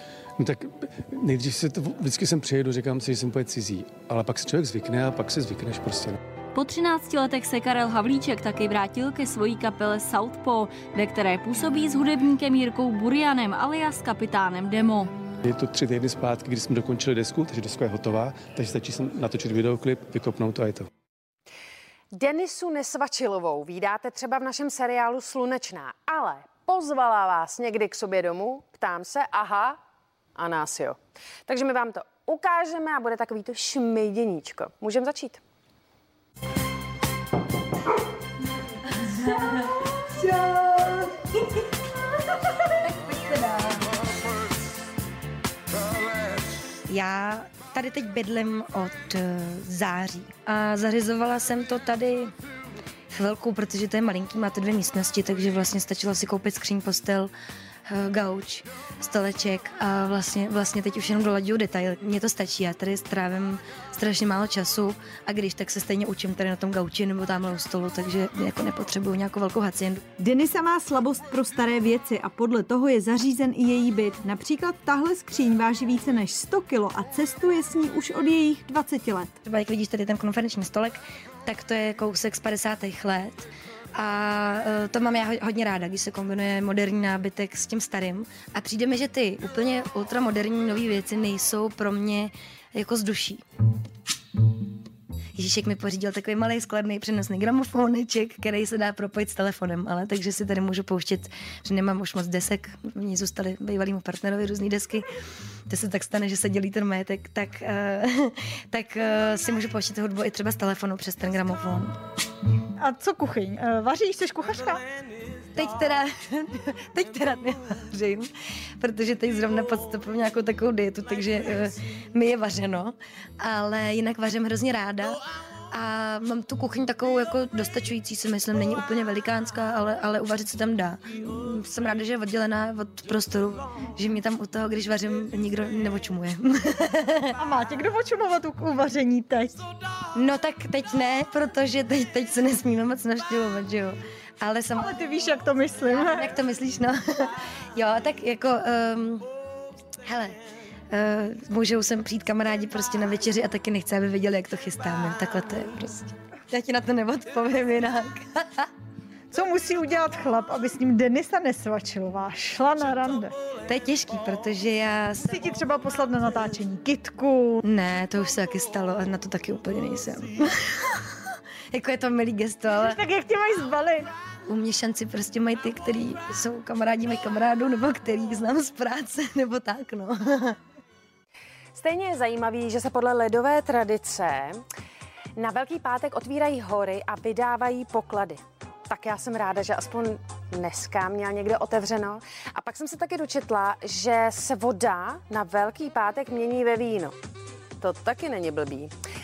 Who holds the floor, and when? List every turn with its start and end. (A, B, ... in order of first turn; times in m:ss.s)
0:00.4-0:06.2 A
0:06.6-0:15.1 B
0:15.4-0:20.9 A
0:22.2-0:29.7 C
0:30.4-0:30.9 C
0:31.5-0:35.4 C
0:40.2-0:41.2 D
0:43.0-0:43.9 D
0:46.9-0:52.3 D
0:53.1-0:57.3 D
0:57.9-1:10.0 D
1:10.2-1:19.3 E
1:19.4-1:33.4 D
1:35.4-1:45.0 D
1:45.7-1:51.9 D
1:52.8-1:54.8 E
1:55.6-1:58.3 D
1:58.8-2:05.2 D
2:05.7-2:17.2 D
2:17.4-2:19.6 E
2:20.2-2:24.9 D
2:24.8-2:26.3 E
2:25.9-2:29.3 D
2:30.1-2:30.4 D
2:30.9-2:38.7 D
2:39.3-2:43.3 E
2:43.7-2:45.4 D
2:45.3-2:47.6 E
2:47.6-2:50.9 D
2:51.7-2:53.0 D
2:52.7-2:54.1 E
2:54.5-3:00.6 D
3:01.8-3:04.5 C
3:05.4-3:08.4 C
3:08.9-3:17.1 C
3:17.8-3:18.9 C